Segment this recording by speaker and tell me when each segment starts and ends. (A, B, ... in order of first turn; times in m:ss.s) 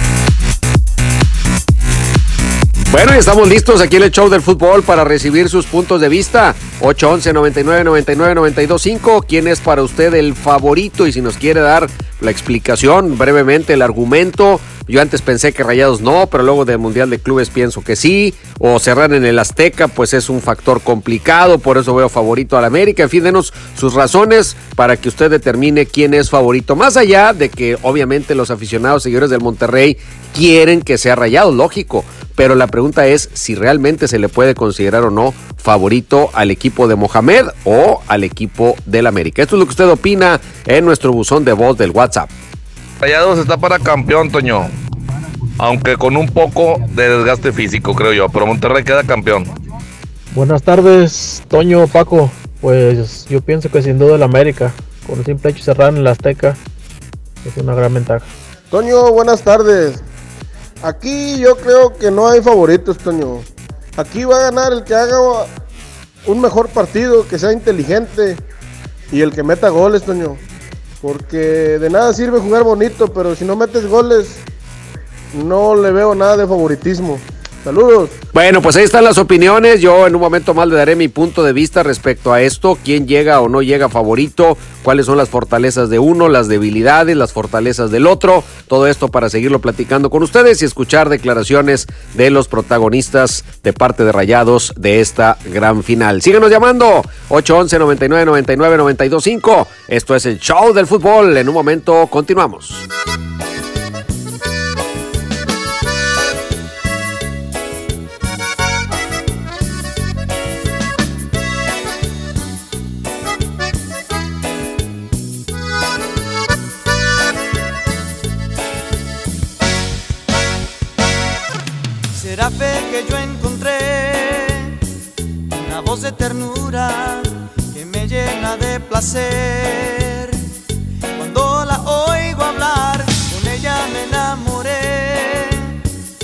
0:02.9-0:42.3 A
0:43.0-0:44.6 B
0:45.6-0:48.6 B
0:50.3-0:56.6 C
0:57.5-0:58.2 C
0:58.7-1:00.0 D
1:00.8-1:03.4 D
1:04.0-1:05.5 D
1:06.2-1:08.4 D
1:09.1-1:10.4 D
1:11.0-1:14.4 D
1:15.3-1:18.1 D
1:18.3-1:42.8 A
2:02.1-2:04.7 E
2:05.5-2:10.4 E
2:11.2-2:15.7 E